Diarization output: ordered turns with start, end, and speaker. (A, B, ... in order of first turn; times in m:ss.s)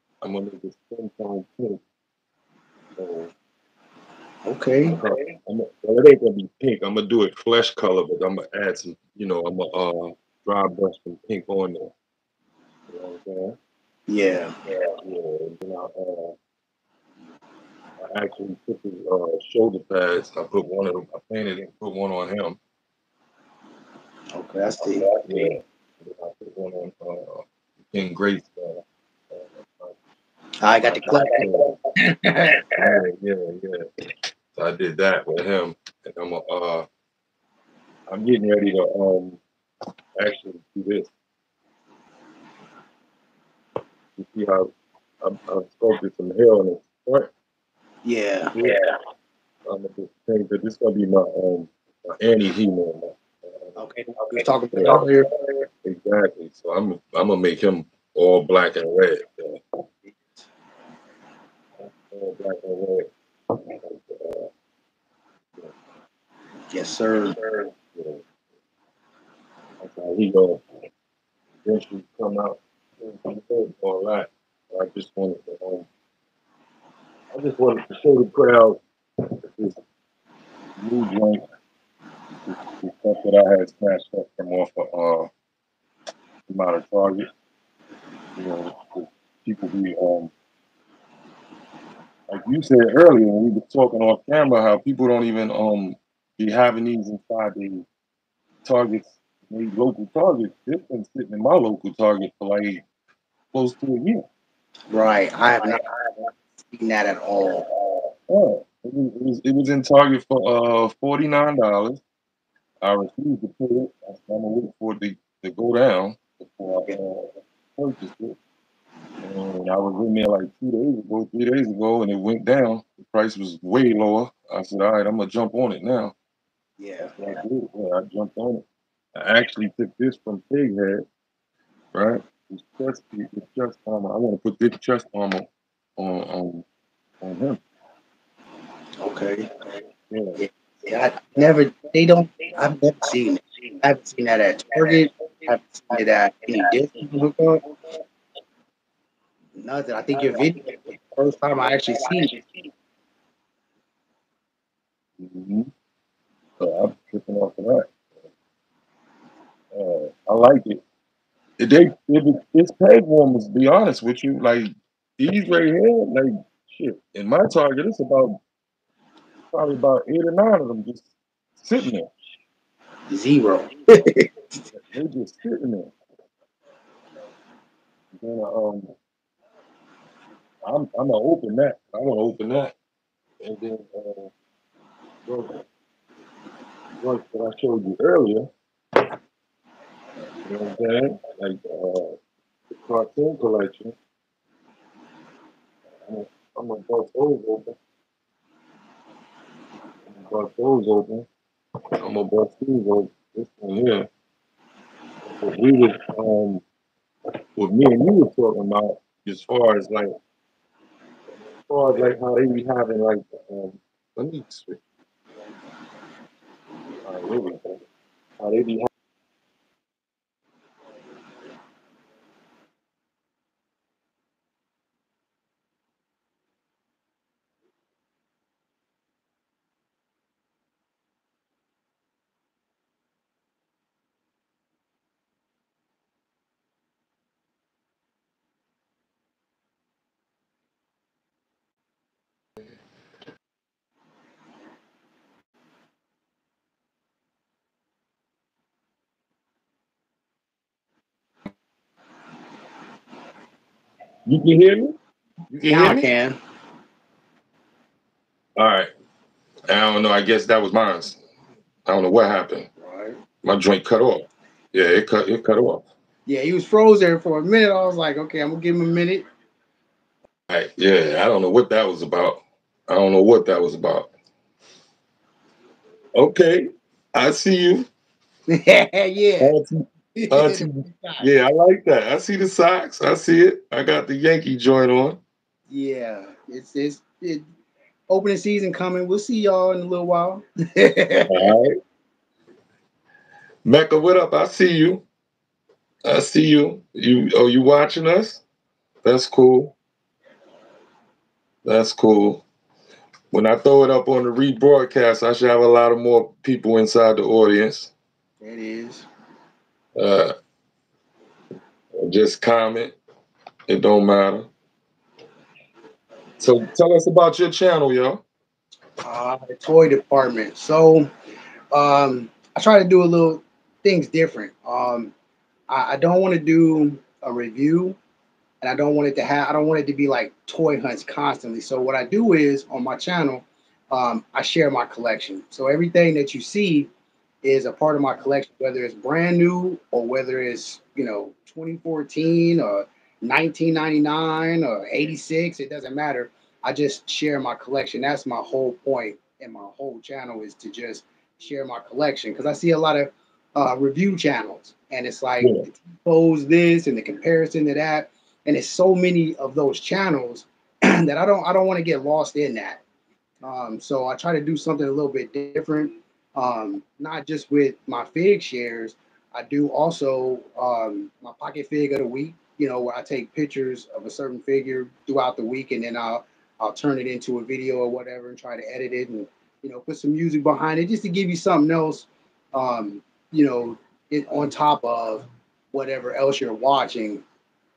0:00.2-0:01.8 A
0:03.0-0:03.3 A
0:04.4-0:05.0 B
0:04.8-0:11.9 A
0:12.9-0:13.6 A
0:14.1-0:14.5 B
0:14.9-0:16.4 A
0:18.1-0:22.6 A
0:24.3-0:25.5 B
0:24.8-0:29.9 A
0:30.6-0:32.7 B
0:31.0-0:31.7 A
0:32.8-0:33.8 A
0:34.5-0:36.8 A
0:38.1-0:39.4 A
0:40.2-0:41.1 A
0:44.2-0:44.7 A
0:45.2-0:47.3 A
0:48.0-0:48.5 B
0:48.5-0:48.9 A
0:49.6-0:59.6 A
0:53.8-0:55.3 B
1:00.1-1:00.4 B
1:02.1-1:04.5 A
1:06.7-1:07.4 B
1:07.4-1:08.2 A
1:09.8-1:10.6 A
1:11.6-1:15.9 A
1:17.3-1:18.8 A
1:19.5-1:19.8 A
1:20.8-1:21.4 A
1:22.4-1:25.3 A
1:26.5-1:27.3 A
1:28.4-1:30.3 A
1:32.3-1:37.8 A
1:38.6-1:42.8 A
1:43.5-1:44.2 A
1:44.9-1:45.8 B
1:46.6-1:47.6 B
1:48.2-1:52.0 A
1:52.8-1:58.4 A
1:59.2-2:06.1 A
2:06.8-2:07.1 B
2:07.0-2:08.6 A
2:09.2-2:11.0 A
2:11.9-2:16.6 A
2:17.2-2:17.6 A
2:19.0-2:19.5 B
2:20.1-2:20.4 A
2:20.4-2:27.6 B
2:29.6-2:32.4 B
2:35.2-2:35.7 A
2:36.6-2:37.9 A
2:39.7-2:40.8 A
2:41.6-2:48.4 A
2:49.5-2:51.1 A
2:51.6-2:52.1 A
2:53.1-2:54.3 B
2:54.7-2:55.9 A
2:58.1-2:58.9 A
3:00.6-3:02.7 A
3:03.4-3:04.3 A
3:05.2-3:05.6 A
3:07.0-3:08.5 A
3:10.4-3:12.2 A
3:12.7-3:14.0 A
3:16.1-3:17.8 A
3:20.1-3:21.3 A
3:22.0-3:24.1 A
3:25.4-3:26.6 A
3:27.6-3:30.1 A
3:31.7-3:34.8 A
3:37.0-3:37.8 A
3:38.4-3:38.9 A
4:14.2-4:15.0 A
4:15.5-4:16.1 A
4:15.6-4:16.4 B
4:18.6-4:18.9 A
4:19.7-4:21.2 A
4:21.8-4:22.7 A
4:22.8-4:23.2 B
4:23.4-4:25.8 A
4:26.2-4:29.2 B
4:30.5-4:34.1 A
4:36.2-4:37.9 A
4:38.5-4:39.5 B
4:39.4-4:45.2 A
4:40.1-4:41.3 B
4:45.7-4:47.4 B
4:48.1-4:51.3 B
4:51.3-4:51.7 A
4:53.6-4:55.0 A
4:56.0-4:58.4 A
4:59.0-4:59.7 A
5:01.6-5:02.4 A
5:03.3-5:07.9 A
5:08.4-5:09.0 B
5:10.0-5:10.3 A
5:11.9-5:12.9 A
5:13.7-5:14.5 A
5:16.4-5:18.2 A
5:19.0-5:21.1 B
5:21.7-5:25.1 B
5:25.7-5:28.0 B
5:28.6-5:36.9 B
5:37.4-6:02.8 B
5:55.4-5:55.6 A
6:03.4-6:27.2 B